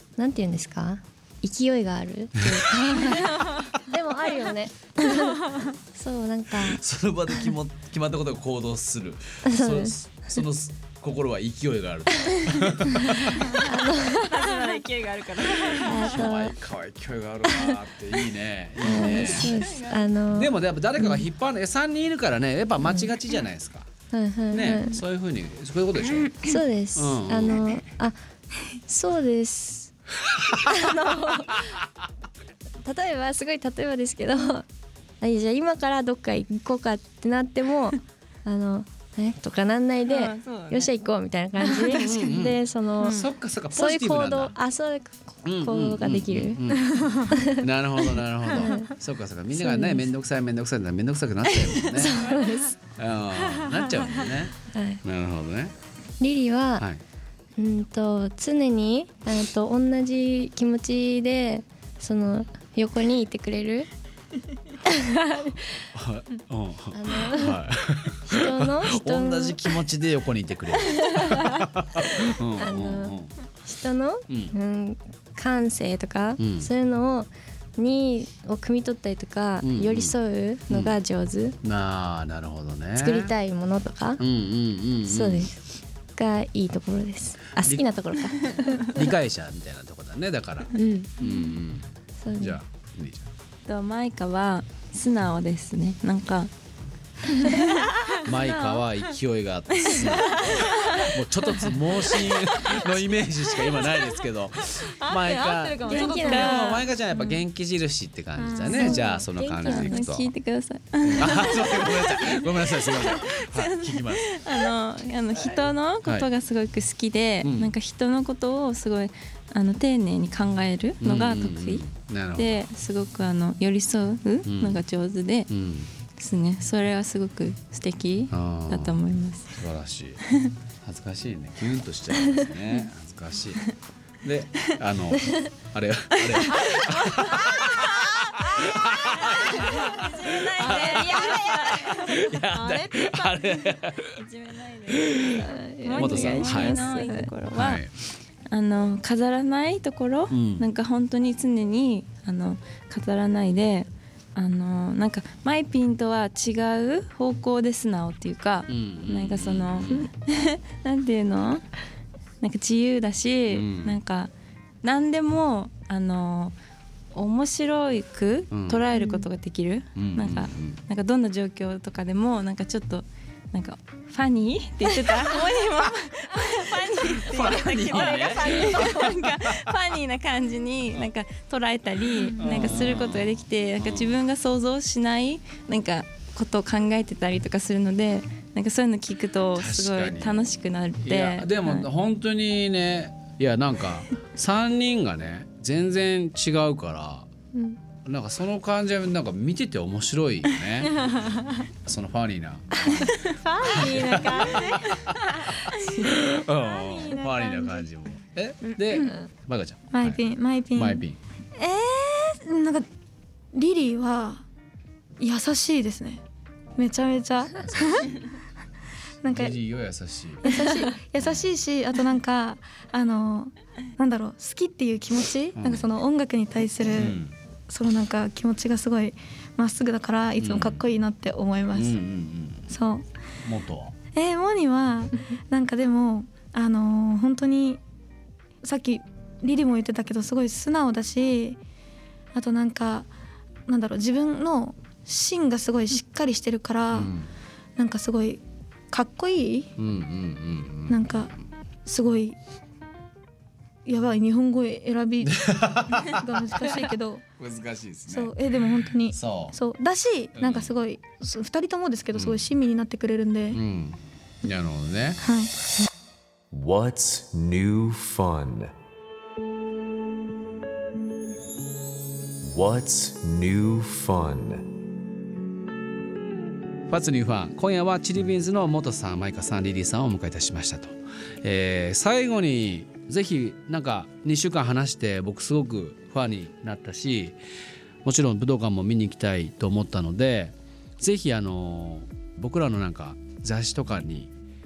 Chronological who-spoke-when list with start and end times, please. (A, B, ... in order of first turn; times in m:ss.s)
0:00.2-0:06.8 A
0:02.4-0:03.1 B
0:06.5-0:13.7 B
0:09.4-0:10.4 A
0:13.6-0:14.6 A
0:14.2-0:16.1 C
0:15.6-0:19.5 B
0:15.8-0:16.5 A
0:18.8-0:21.2 A
0:18.9-0:20.1 C
0:20.3-0:23.9 B
0:22.8-0:23.1 A
0:24.1-0:25.0 A
0:24.5-0:27.6 B
0:26.4-0:28.2 A
0:28.9-0:29.9 A
0:30.5-0:31.8 A
0:32.8-0:34.6 A
0:35.2-0:46.6 A
0:40.0-0:40.9 C
0:41.9-0:44.6 B
0:43.0-0:43.2 C
0:45.4-0:52.3 B
0:46.8-0:47.3 D
0:47.3-0:47.6 A
0:48.4-0:48.9 A
0:49.5-0:50.1 A
0:51.9-0:52.8 A
0:53.0-0:55.7 B
0:54.7-0:55.0 A
0:56.2-0:56.9 A
0:57.6-1:03.9 A
1:04.9-1:05.6 A
1:05.9-1:13.3 B
1:06.9-1:07.6 A
1:08.3-1:09.6 A
1:12.6-1:21.6 A
1:14.3-1:14.5 B
1:16.4-1:16.7 B
1:19.6-1:20.2 B
1:20.7-1:20.9 B
1:21.6-1:23.3 B
1:23.0-1:24.2 A
1:24.2-1:25.5 B
1:25.0-1:25.5 A
1:26.1-1:29.0 A
1:27.6-1:27.9 B
1:28.9-1:31.9 B
1:30.7-1:31.5 A
1:32.2-1:32.6 A
1:32.4-1:33.2 B
1:33.6-1:36.5 C
1:37.4-1:37.9 C
1:38.2-1:50.3 B
1:39.9-1:41.0 C
1:44.8-1:46.7 D
1:45.9-1:46.6 A
1:45.9-1:46.9 C
1:48.4-1:49.0 D
1:48.7-1:50.3 A
1:49.6-2:05.5 C
1:51.1-1:54.4 B
1:57.4-1:57.7 B
2:01.0-2:02.6 B
2:04.4-2:04.8 B
2:05.5-2:05.9 B
2:06.2-2:09.5 C
2:08.3-2:10.2 B
2:10.8-2:20.0 B
2:16.8-2:17.3 D
2:19.2-2:22.2 C
2:20.6-2:23.6 D
2:20.6-2:24.1 B
2:24.1-2:25.2 C
2:25.0-2:25.4 B
2:25.4-2:27.3 A
2:25.8-2:27.8 C
2:26.0-2:26.8 B
2:27.5-2:27.9 B
2:28.5-2:41.6 C
2:30.3-2:30.6 B
2:38.7-2:40.1 B
2:42.4-2:44.3 C
2:43.5-2:44.0 B
2:44.8-2:46.5 C
2:47.1-3:11.9 C
2:48.5-2:48.8 B
2:48.9-2:49.3 A
2:49.9-2:50.8 B
2:57.2-2:59.1 B
3:02.3-3:04.2 B
3:09.5-3:17.3 B
3:17.5-3:17.8 D
3:17.9-3:21.1 B
3:21.8-3:25.2 B
3:23.2-3:25.0 D
3:25.9-3:30.2 B
3:26.5-3:27.8 D
3:28.9-3:29.2 D
3:29.9-3:31.0 D
3:30.7-3:31.2 B
3:31.6-3:32.8 D
3:33.5-3:34.4 D
3:35.2-3:36.2 D
3:36.8-3:38.2 D
3:37.6-3:38.3 B
3:39.2-3:39.6 D
3:39.3-3:40.5 B
3:40.4-3:52.0 D
3:41.2-3:41.4 B
3:45.6-3:45.9 B
3:46.9-3:47.4 B
3:50.4-3:50.8 B
3:51.7-3:52.7 B
3:52.7-3:53.0 D
3:53.4-3:53.9 B
3:54.1-3:57.8 D
3:58.6-4:01.6 D
4:02.3-4:03.1 D
4:03.7-4:07.1 D
4:06.9-4:07.3 B
4:07.8-4:08.4 D
4:08.9-4:09.7 D
4:09.8-4:11.2 B
4:10.9-4:11.3 D
4:11.8-4:12.4 D
4:13.8-4:17.2 D
4:15.2-4:18.4 B
4:18.1-4:23.6 D
4:19.0-4:19.6 B
4:20.4-4:20.7 B
4:22.1-4:22.5 B
4:23.5-4:25.2 B
4:25.2-4:25.5 D
4:26.5-4:28.7 E
4:32.4-4:34.6 E
4:36.9-4:47.4 B
4:48.0-4:54.3 B